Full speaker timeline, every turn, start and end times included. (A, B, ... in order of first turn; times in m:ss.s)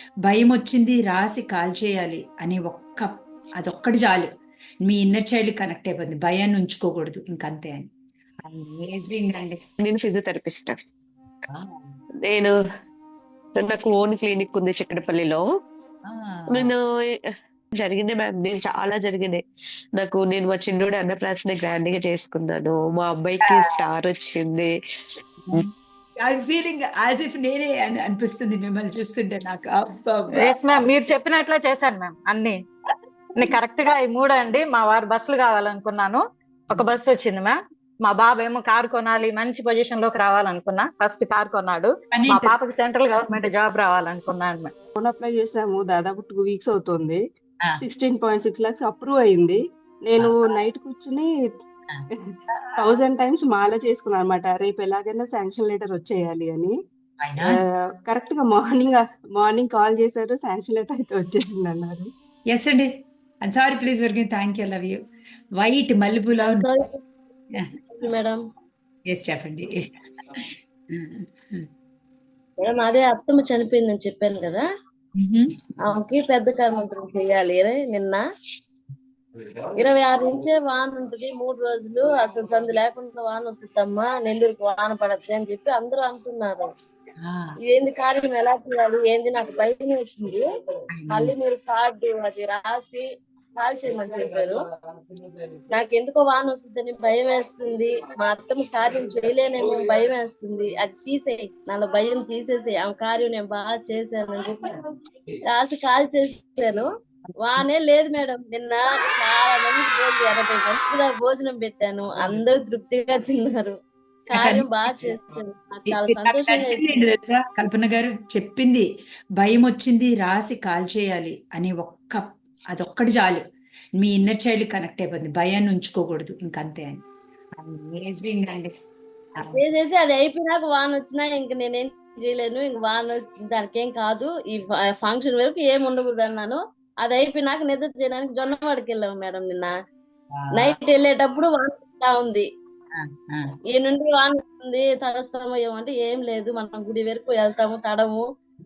0:00.3-0:04.3 A
0:04.8-0:07.9 A
0:08.4-0:09.6 A
0:09.8-0:10.8 B
0:11.5-0:12.0 A
0:12.3-0:12.5 B
0:13.6-0:15.4 B
0:16.1-0:16.7 A
0:16.5-0:16.8 B
0:17.8-0:19.4 B
0:20.0-0:24.7 B
0:25.4-0:30.4 A
0:30.6-0:32.6 C
0:33.4-0:44.7 C
0:42.1-0:42.6 A
0:45.0-0:47.2 D
0:47.8-0:51.3 D
0:52.3-0:56.8 D
0:57.2-0:57.6 A
0:57.4-1:02.1 D
1:02.5-1:02.9 A
1:03.4-1:05.0 A
1:05.6-1:06.7 A
1:06.4-1:07.0 E
1:08.0-1:08.4 E
1:09.1-1:09.7 A
1:11.0-1:11.7 A
1:12.6-1:14.6 E
1:15.2-1:15.5 A
1:15.9-1:18.2 E
1:19.8-1:26.7 E
1:27.2-1:27.5 A
1:27.7-1:30.4 E
1:30.9-1:31.3 A
1:31.1-1:33.0 E
1:33.6-1:34.6 E
1:35.8-1:44.7 E
1:45.5-1:46.9 E
1:47.4-1:53.8 E
1:54.3-1:56.8 E
1:54.3-1:54.7 A
1:55.9-1:58.9 A
1:59.4-2:03.4 A
2:04.0-2:07.0 A
2:07.6-2:08.7 A
2:09.6-2:19.7 E
2:20.3-2:20.7 A
2:20.5-2:22.4 E
2:23.0-2:23.5 A
2:23.7-2:28.2 E